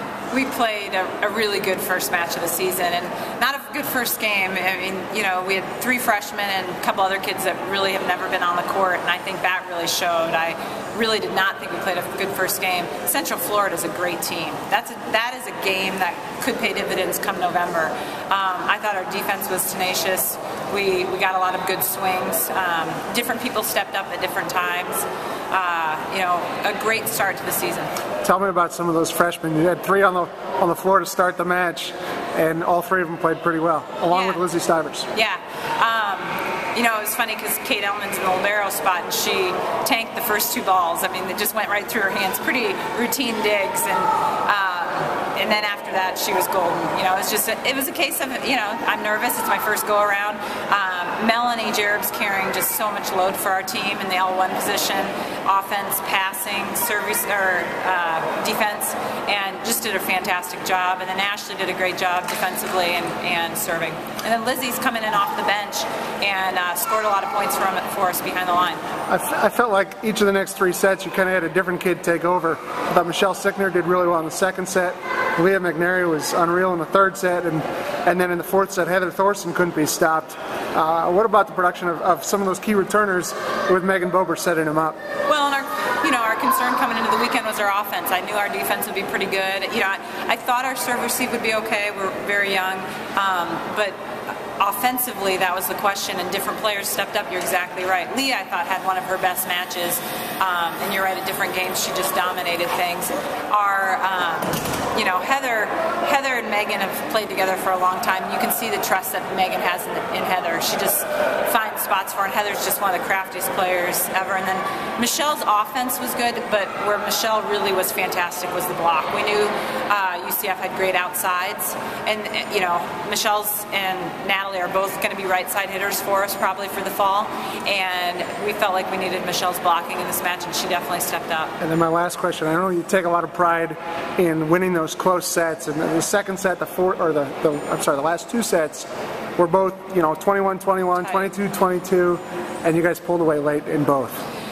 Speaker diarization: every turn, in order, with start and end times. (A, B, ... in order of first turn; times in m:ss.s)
0:00.3-0:27.9 A
0:28.2-0:35.1 B
0:34.1-0:34.4 A
0:35.1-1:08.8 A
1:09.1-1:25.0 B
1:25.3-1:34.0 A
1:34.6-2:11.5 A
2:11.6-2:24.2 B